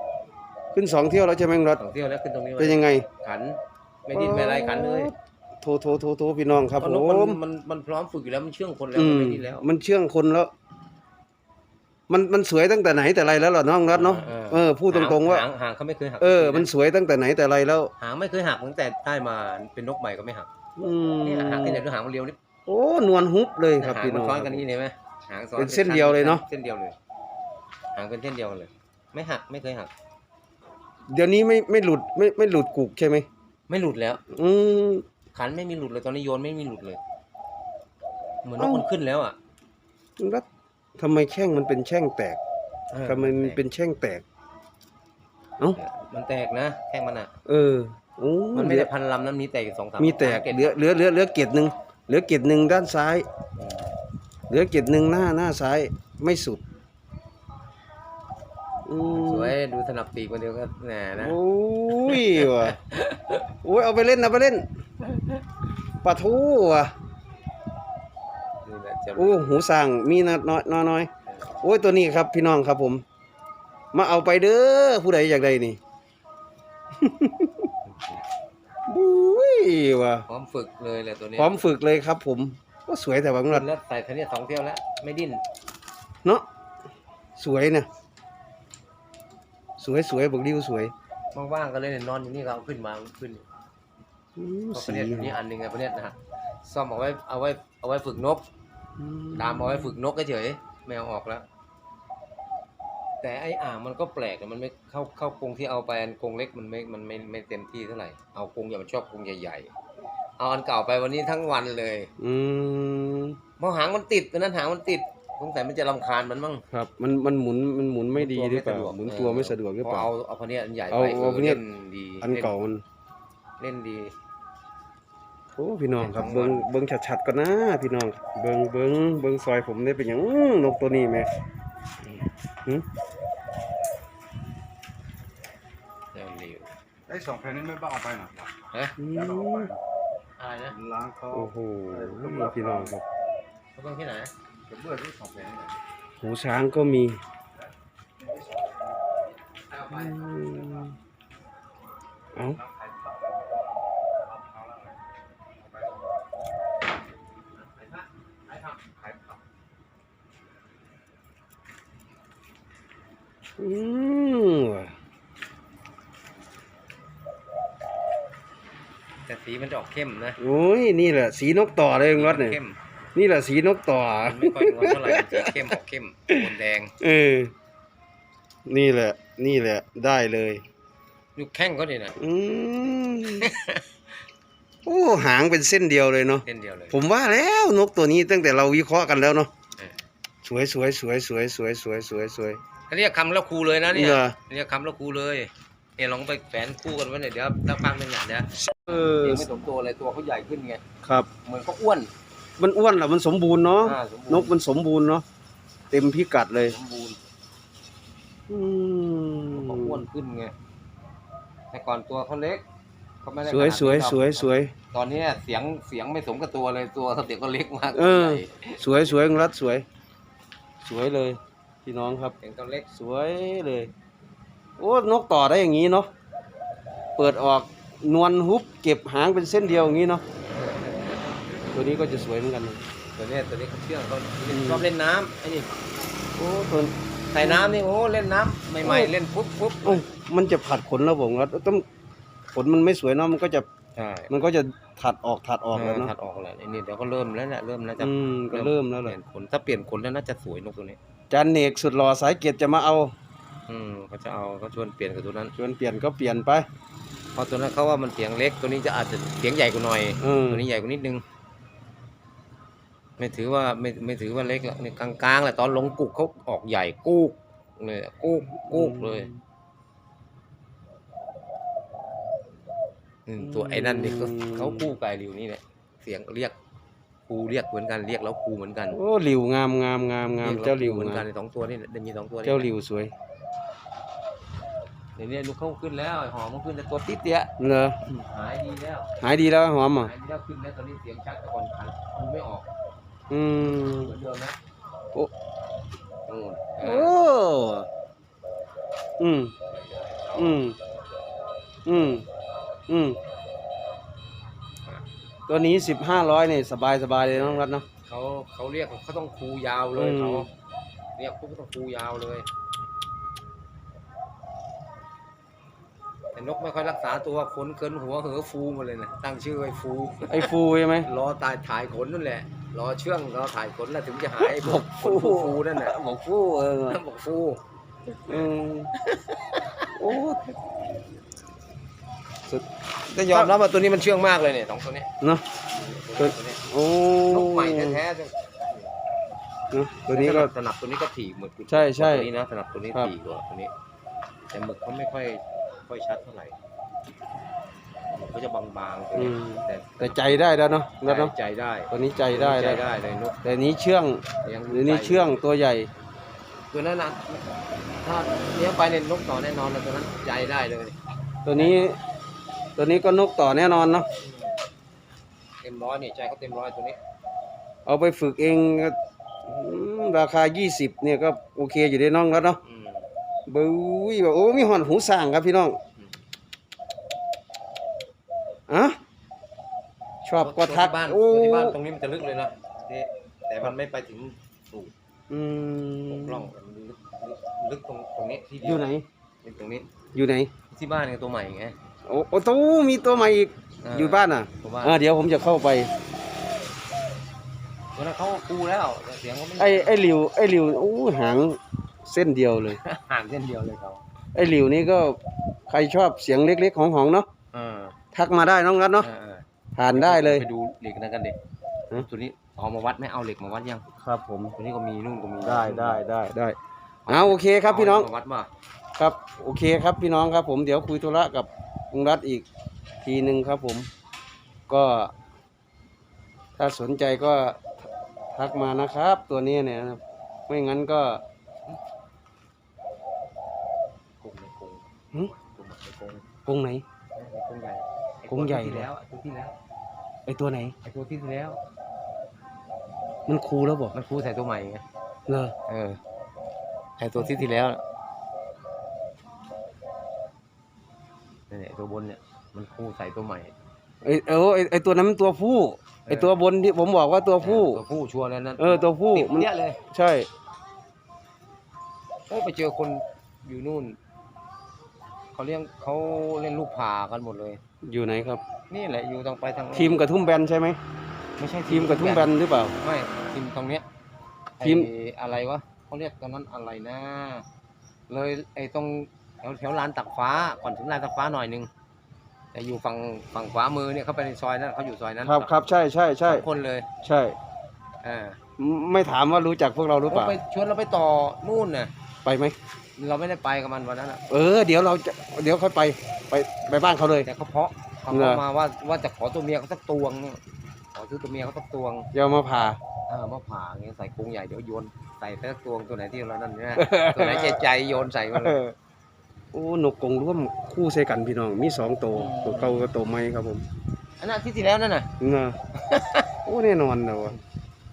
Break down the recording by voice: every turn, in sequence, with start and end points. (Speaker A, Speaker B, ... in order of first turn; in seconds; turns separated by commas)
Speaker A: 0.7-1.8, Speaker B: 1.8-5.1, Speaker A: 2.6-3.1, Speaker A: 4.1-7.4, Speaker B: 6.8-9.7, Speaker A: 8.9-10.5, Speaker A: 12.1-15.5, Speaker B: 13.9-16.7, Speaker A: 16.2-17.9, Speaker B: 18.0-20.5, Speaker A: 20.8-21.8, Speaker B: 21.2-22.4, Speaker A: 22.7-24.6, Speaker B: 23.8-26.9, Speaker A: 25.6-26.4, Speaker B: 27.9-29.9, Speaker A: 31.1-33.3, Speaker B: 33.7-34.2, Speaker A: 34.3-35.0, Speaker B: 35.4-37.0, Speaker B: 38.4-39.4, Speaker A: 38.6-38.9, Speaker A: 40.2-40.5, Speaker A: 41.0-42.4, Speaker B: 42.9-43.6, Speaker A: 43.1-44.2, Speaker B: 45.8-47.3, Speaker A: 47.5-48.9, Speaker B: 48.5-50.8, Speaker A: 50.0-53.3, Speaker B: 53.6-53.9, Speaker A: 54.5-56.6, Speaker A: 58.9-59.5, Speaker B: 59.1-61.4, Speaker A: 61.2-62.8, Speaker B: 62.0-63.4, Speaker A: 63.6-64.7, Speaker B: 65.0-65.4, Speaker A: 66.0-66.9, Speaker B: 68.7-69.5, Speaker A: 69.2-71.1, Speaker B: 71.3-71.5, Speaker A: 71.6-73.0, Speaker A: 73.9-75.8, Speaker A: 77.0-77.7, Speaker B: 77.9-78.2, Speaker A: 78.9-80.2, Speaker B: 80.3-81.6, Speaker A: 81.4-83.7, Speaker B: 83.5-85.4, Speaker A: 87.4-87.9, Speaker A: 89.8-90.9, Speaker B: 91.3-93.5, Speaker A: 94.4-95.4, Speaker B: 94.7-98.5, Speaker A: 99.0-100.0, Speaker B: 99.3-101.5, Speaker B: 103.2-109.7, Speaker B: 110.4-112.1, Speaker A: 112.2-113.4, Speaker B: 113.6-116.6, Speaker A: 116.7-120.1, Speaker B: 118.2-122.5, Speaker A: 120.9-121.6, Speaker A: 122.2-122.8, Speaker B: 123.6-124.1, Speaker A: 125.5-131.3, Speaker B: 126.0-126.7, Speaker B: 136.1-136.7, Speaker C: 137.1-139.8, Speaker A: 139.0-139.7, Speaker B: 140.4-140.8, Speaker C: 140.7-143.0, Speaker A: 141.3-143.0, Speaker B: 143.8-144.3, Speaker C: 144.7-145.8, Speaker A: 146.2-147.2, Speaker C: 148.2-149.1, Speaker B: 149.7-150.1, Speaker A: 149.9-150.9, Speaker A: 152.3-152.6, Speaker C: 152.6-153.6, Speaker C: 154.2-155.0, Speaker C: 155.6-156.0, Speaker B: 157.6-159.4, Speaker A: 163.6-164.9, Speaker B: 169.3-170.4, Speaker A: 170.4-172.6, Speaker B: 172.1-172.8, Speaker A: 173.2-175.8, Speaker B: 174.2-176.9, Speaker A: 177.0-177.5, Speaker A: 178.7-180.7, Speaker B: 181.4-182.2, Speaker A: 182.2-183.5, Speaker B: 183.4-183.8, Speaker A: 184.8-189.5, Speaker B: 186.5-187.0, Speaker A: 190.4-192.6, Speaker B: 192.9-198.5, Speaker A: 193.9-194.3, Speaker A: 198.6-199.5, Speaker B: 199.2-200.8, Speaker A: 201.0-201.3, Speaker B: 201.4-202.1, Speaker A: 202.6-205.2, Speaker B: 203.8-204.6, Speaker A: 205.9-206.8, Speaker B: 206.6-207.2, Speaker A: 208.5-210.1, Speaker B: 209.5-210.5, Speaker B: 211.7-212.6, Speaker B: 213.2-219.2, Speaker A: 213.4-214.7, Speaker A: 217.9-219.8, Speaker A: 220.8-222.3, Speaker B: 222.4-222.9, Speaker A: 222.9-223.9, Speaker A: 224.8-226.1, Speaker A: 227.2-230.2, Speaker B: 230.6-231.2, Speaker A: 231.7-232.8, Speaker B: 233.2-235.7, Speaker A: 234.5-234.9, Speaker A: 236.4-237.8, Speaker B: 237.3-240.1, Speaker A: 238.8-239.1, Speaker A: 239.8-241.8, Speaker A: 242.5-243.7, Speaker B: 244.0-244.3, Speaker A: 244.3-246.1, Speaker B: 245.7-251.0, Speaker A: 248.0-249.2, Speaker A: 251.3-253.1, Speaker B: 253.7-255.5, Speaker A: 255.6-256.7, Speaker B: 257.4-261.2, Speaker A: 260.2-260.6, Speaker B: 263.2-269.3, Speaker A: 268.7-269.4, Speaker B: 273.3-276.6, Speaker A: 273.4-274.9, Speaker B: 277.3-279.0, Speaker A: 278.9-281.2, Speaker B: 280.4-282.7, Speaker A: 282.4-283.1, Speaker B: 285.2-289.1, Speaker A: 287.6-288.0, Speaker A: 289.2-290.1, Speaker B: 289.9-292.7, Speaker A: 293.3-294.1, Speaker B: 293.6-294.6, Speaker B: 296.3-297.2, Speaker A: 296.8-297.9, Speaker A: 299.2-299.5, Speaker B: 299.7-300.6, Speaker A: 300.4-300.8, Speaker A: 301.9-302.3, Speaker A: 302.9-303.2, Speaker A: 305.5-307.9, Speaker B: 307.3-310.5, Speaker A: 309.9-310.5, Speaker B: 311.2-312.5, Speaker B: 316.3-320.5, Speaker A: 320.3-321.1, Speaker B: 321.0-326.0, Speaker A: 324.4-327.0, Speaker B: 326.9-328.4, Speaker A: 328.3-328.9, Speaker B: 329.0-329.9, Speaker A: 329.9-330.4, Speaker A: 332.5-333.5, Speaker B: 333.1-335.1, Speaker B: 335.7-336.6, Speaker A: 336.2-338.0, Speaker B: 337.3-338.9, Speaker A: 339.7-340.5, Speaker B: 340.1-343.7, Speaker A: 341.7-342.3, Speaker B: 344.5-346.6, Speaker B: 348.1-350.2, Speaker A: 349.1-351.3, Speaker B: 351.0-353.4, Speaker A: 351.9-352.8, Speaker A: 353.4-355.9, Speaker B: 354.4-355.4, Speaker B: 356.7-357.5, Speaker B: 358.0-361.0, Speaker A: 361.4-362.0, Speaker A: 362.8-364.1, Speaker B: 364.2-364.5, Speaker B: 365.6-367.0, Speaker A: 367.9-369.0, Speaker A: 369.5-372.6, Speaker B: 372.6-373.1, Speaker A: 373.5-375.8, Speaker A: 378.7-379.0, Speaker A: 380.2-381.8, Speaker B: 380.4-384.9, Speaker A: 385.3-386.5, Speaker B: 386.1-388.9, Speaker A: 388.6-389.1, Speaker B: 389.4-389.9, Speaker A: 390.1-390.5, Speaker B: 390.7-391.8, Speaker A: 392.1-395.9, Speaker B: 393.8-395.0, Speaker B: 398.0-400.0, Speaker A: 399.6-402.8, Speaker B: 402.7-404.0, Speaker A: 404.4-407.3, Speaker B: 407.5-407.9, Speaker A: 408.1-409.1, Speaker B: 409.0-411.4, Speaker A: 409.8-410.4, Speaker B: 411.9-413.9, Speaker A: 414.0-414.6, Speaker B: 414.6-416.0, Speaker A: 415.4-416.6, Speaker B: 417.1-418.5, Speaker A: 417.1-418.1, Speaker A: 419.0-422.5, Speaker A: 423.0-423.9, Speaker A: 424.7-425.1, Speaker A: 426.6-431.2, Speaker B: 434.2-436.3, Speaker A: 436.5-436.8, Speaker B: 437.2-439.6, Speaker A: 438.3-438.9, Speaker A: 440.3-440.8, Speaker B: 440.8-441.6, Speaker A: 443.3-443.9, Speaker B: 443.9-444.8, Speaker A: 445.3-445.6, Speaker B: 445.7-446.0, Speaker B: 447.0-447.8, Speaker B: 451.5-453.5, Speaker A: 454.0-457.8, Speaker B: 456.1-456.4, Speaker B: 457.4-459.8, Speaker A: 458.6-460.3, Speaker B: 462.3-464.0, Speaker B: 465.4-467.6, Speaker A: 467.9-468.4, Speaker B: 468.7-470.0, Speaker A: 469.8-470.8, Speaker B: 471.4-473.9, Speaker A: 471.7-472.7, Speaker B: 474.6-477.4, Speaker A: 474.6-474.9, Speaker B: 478.1-481.7, Speaker B: 482.5-485.6, Speaker A: 485.2-486.5, Speaker B: 486.2-486.9, Speaker A: 487.0-487.4, Speaker B: 488.0-488.4, Speaker A: 488.6-490.4, Speaker B: 490.1-491.9, Speaker A: 492.2-492.6, Speaker B: 493.0-494.2, Speaker A: 494.3-497.3, Speaker B: 497.2-500.4, Speaker A: 498.1-498.4, Speaker B: 500.9-502.1, Speaker A: 502.1-502.8, Speaker B: 503.1-508.7, Speaker A: 506.8-507.6, Speaker A: 509.5-513.6, Speaker B: 512.1-512.9, Speaker B: 514.2-515.1, Speaker A: 515.2-515.6, Speaker B: 515.7-516.3, Speaker A: 516.5-517.4